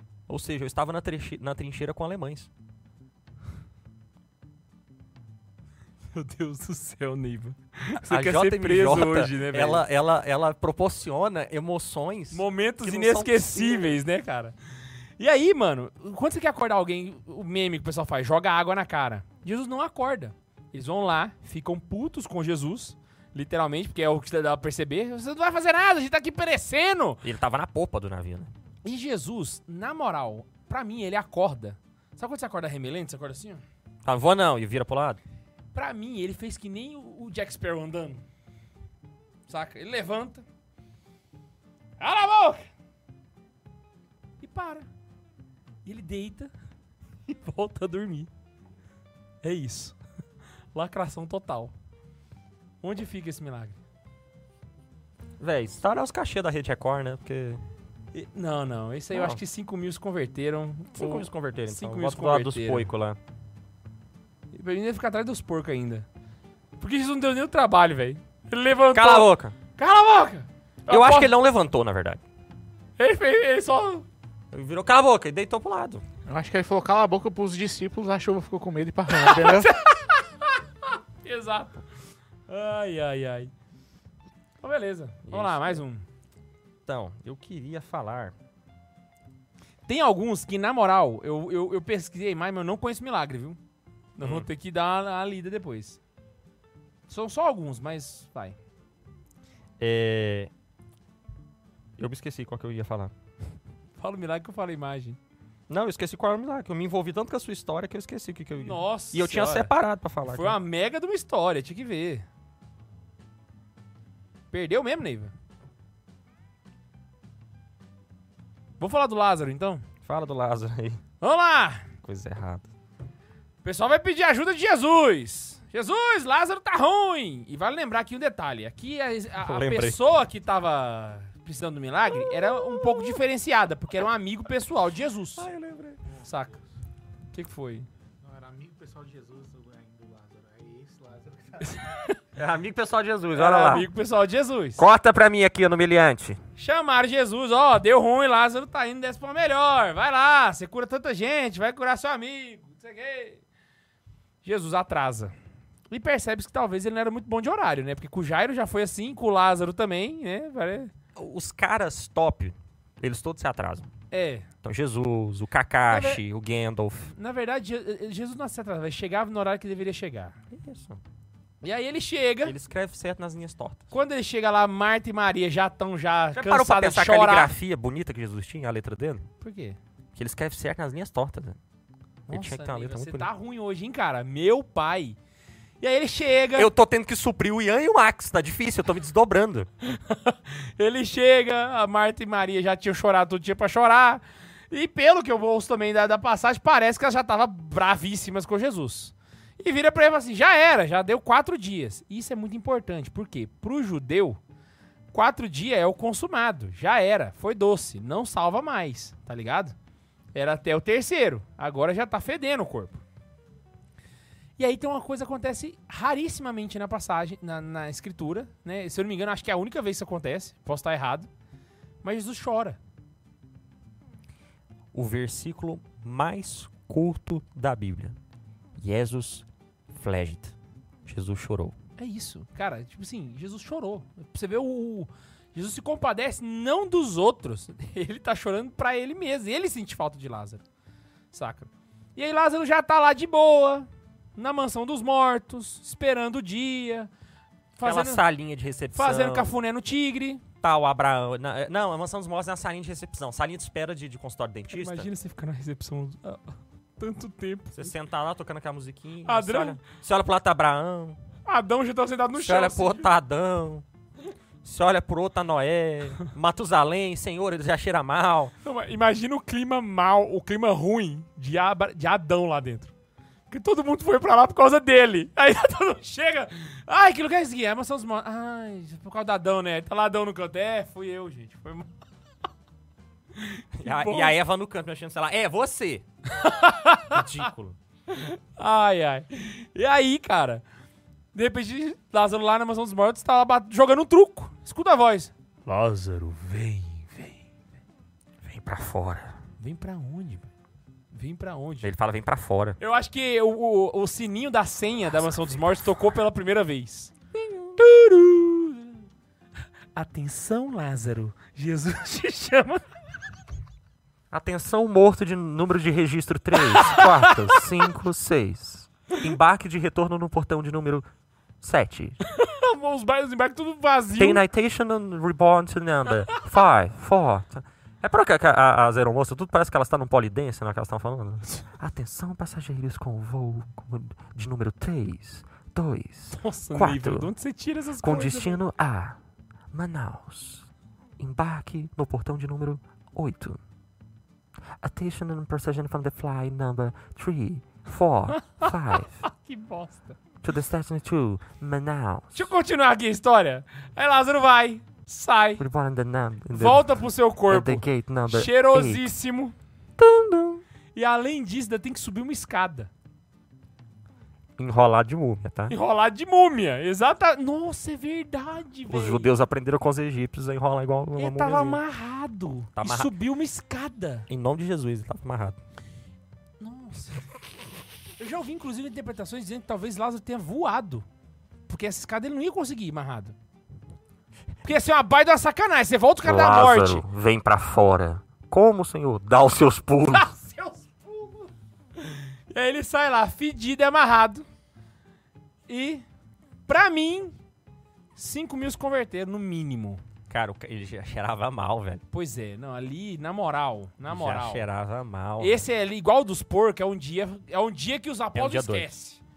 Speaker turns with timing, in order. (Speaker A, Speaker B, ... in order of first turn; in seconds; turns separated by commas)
Speaker A: 0.3-2.5, Speaker B: 6.1-9.8, Speaker A: 8.1-13.9, Speaker B: 12.3-14.6, Speaker B: 15.2-27.2, Speaker A: 27.2-28.5, Speaker B: 28.8-33.6, Speaker A: 34.0-35.2, Speaker B: 35.7-38.2, Speaker B: 39.5-40.4, Speaker B: 42.0-42.6, Speaker B: 44.4-44.9, Speaker B: 45.8-46.5, Speaker B: 47.3-48.3, Speaker B: 49.4-50.0, Speaker B: 50.7-51.7, Speaker B: 52.8-53.8, Speaker A: 55.4-57.6, Speaker B: 58.1-62.9, Speaker A: 59.1-59.4, Speaker A: 60.9-63.2, Speaker B: 64.5-66.0, Speaker B: 66.8-71.3, Speaker A: 68.9-69.5, Speaker A: 70.9-72.2, Speaker B: 73.0-74.0, Speaker A: 74.5-76.0, Speaker C: 76.3-79.7, Speaker B: 79.1-81.8, Speaker B: 82.5-83.5, Speaker B: 84.6-86.0, Speaker A: 85.3-85.8, Speaker A: 86.8-88.3, Speaker B: 89.9-93.6, Speaker B: 94.2-96.0, Speaker A: 94.2-94.5, Speaker B: 97.1-98.6, Speaker A: 99.8-100.5, Speaker A: 102.0-103.1, Speaker B: 104.0-105.2, Speaker A: 105.7-110.6, Speaker B: 108.6-109.7, Speaker B: 110.2-112.2, Speaker B: 114.5-115.3, Speaker B: 118.8-119.8, Speaker A: 120.0-121.0, Speaker B: 121.2-121.9, Speaker A: 122.0-122.7, Speaker B: 123.6-135.5, Speaker A: 129.4-130.0, Speaker A: 135.4-136.0, Speaker B: 136.2-136.6, Speaker B: 137.3-137.9, Speaker C: 138.2-141.8, Speaker B: 141.6-142.2, Speaker A: 142.3-143.9, Speaker B: 143.3-144.8, Speaker A: 144.8-146.4, Speaker B: 146.6-153.4, Speaker B: 154.4-155.3, Speaker B: 155.9-160.9, Speaker A: 161.2-163.9, Speaker B: 164.1-164.5, Speaker A: 164.6-167.1, Speaker B: 165.9-166.2, Speaker B: 167.1-170.4, Speaker A: 170.5-171.0, Speaker B: 171.6-172.6, Speaker A: 172.4-173.9, Speaker B: 173.9-177.5, Speaker A: 176.3-179.2, Speaker B: 179.4-179.8, Speaker A: 180.1-181.6, Speaker B: 182.3-185.2, Speaker A: 182.3-183.3, Speaker B: 185.8-186.7, Speaker A: 186.6-189.7, Speaker B: 189.8-204.4, Speaker B: 205.1-209.7, Speaker B: 210.3-213.0, Speaker B: 214.6-221.3, Speaker B: 222.0-222.8, Speaker A: 224.9-228.2, Speaker A: 228.8-231.8, Speaker B: 232.0-240.6, Speaker B: 241.3-247.1, Speaker B: 247.8-248.2, Speaker A: 247.8-249.5, Speaker B: 248.9-250.4, Speaker A: 250.6-255.1, Speaker B: 254.7-257.9, Speaker A: 257.7-261.2, Speaker B: 259.2-259.8, Speaker B: 261.4-263.1, Speaker A: 262.4-263.8, Speaker A: 264.6-268.5, Speaker B: 268.6-272.9, Speaker B: 273.5-281.9, Speaker B: 283.3-284.3, Speaker A: 283.8-286.0, Speaker B: 286.3-287.5, Speaker A: 287.1-287.8, Speaker B: 288.1-290.6, Speaker B: 291.3-297.5, Speaker A: 298.4-299.3, Speaker B: 299.6-300.5, Speaker B: 301.1-301.9, Speaker A: 301.8-302.8, Speaker B: 302.8-307.1, Speaker A: 305.2-305.8, Speaker A: 307.3-307.8, Speaker B: 307.8-309.0, Speaker B: 309.9-312.8, Speaker A: 314.3-321.1, Speaker B: 316.5-317.7, Speaker A: 321.6-322.2, Speaker B: 322.2-324.4, Speaker A: 324.2-337.3, Speaker B: 336.3-338.6, Speaker A: 338.0-339.2, Speaker A: 339.7-340.7, Speaker A: 341.2-343.6, Speaker A: 344.8-349.2, Speaker B: 348.3-350.2, Speaker A: 350.4-352.4, Speaker B: 352.3-355.6, Speaker A: 355.6-359.1, Speaker B: 356.5-359.5, Speaker A: 360.0-360.6, Speaker B: 360.9-362.9, Speaker A: 364.6-365.8, Speaker B: 365.7-369.3, Speaker A: 368.9-371.8, Speaker B: 371.2-374.3, Speaker A: 372.7-373.1, Speaker A: 374.3-375.6, Speaker B: 376.6-377.3, Speaker B: 378.2-381.0, Speaker B: 381.7-383.3, Speaker B: 384.6-387.0, Speaker A: 386.2-390.3, Speaker B: 390.1-394.4, Speaker B: 395.7-396.0, Speaker B: 396.7-397.4, Speaker B: 398.1-400.0, Speaker A: 400.3-402.0, Speaker B: 402.1-404.7, Speaker A: 404.1-405.6, Speaker B: 405.4-409.2, Speaker A: 408.3-408.9